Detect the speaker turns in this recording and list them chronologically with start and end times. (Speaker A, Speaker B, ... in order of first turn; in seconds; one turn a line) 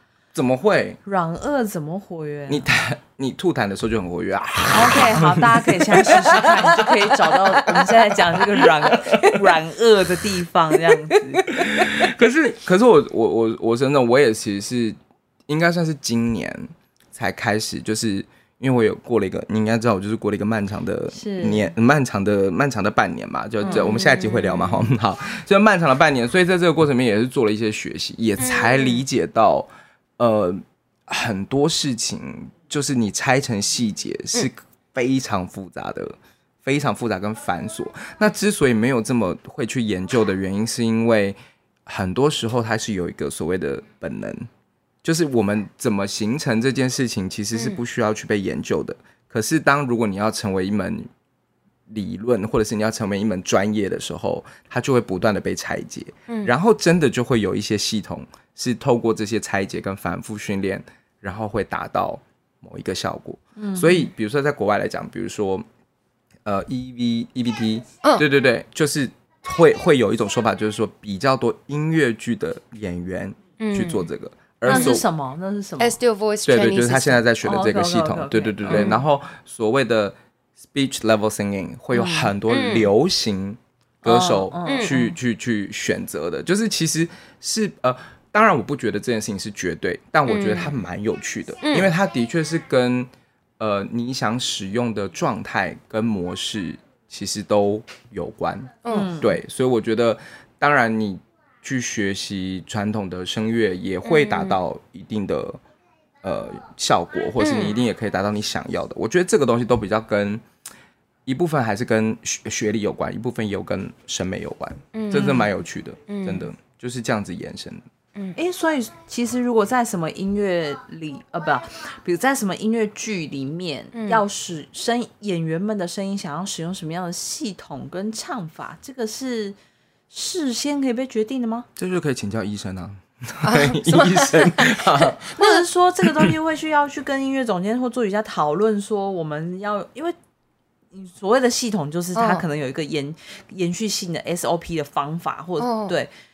Speaker A: 0.3-1.0
Speaker B: 1.0-2.7
Speaker A: 2.5-6.9
Speaker B: 4.7-11.8
Speaker A: 8.6-9.3
Speaker A: 11.5-29.7
Speaker B: 21.1-21.7
Speaker C: 23.6-24.9
Speaker C: 28.4-29.0
Speaker A: 30.2-44.5
Speaker A: 45.0-51.1
Speaker C: 47.5-47.8
Speaker A: 51.9-65.6
Speaker B: 63.5-64.1
Speaker A: 66.4-75.0
Speaker C: 73.6-74.1
Speaker C: 74.7-75.0
Speaker B: 74.7-76.0
Speaker C: 75.8-77.2
Speaker A: 76.4-80.2
Speaker B: 77.4-79.0
Speaker C: 78.7-79.0
Speaker A: 80.7-105.6
Speaker B: 81.9-82.3
Speaker C: 82.5-82.9
Speaker B: 84.0-85.1
Speaker C: 84.6-85.0
Speaker C: 90.3-90.8
Speaker C: 91.6-91.9
Speaker C: 98.8-99.2
Speaker B: 98.9-99.3
Speaker C: 104.0-104.6
Speaker A: 106.2-110.4
Speaker C: 107.4-107.8
Speaker A: 111.2-117.8
Speaker C: 114.9-115.5
Speaker B: 115.1-115.5
Speaker C: 116.1-116.5
Speaker B: 118.3-129.6
Speaker C: 123.9-124.2
Speaker B: 130.1-131.7
Speaker A: 131.8-135.3
Speaker C: 133.4-135.6
Speaker B: 135.4-140.1
Speaker B: 140.9-146.1
Speaker C: 142.2-142.4
Speaker C: 145.6-145.9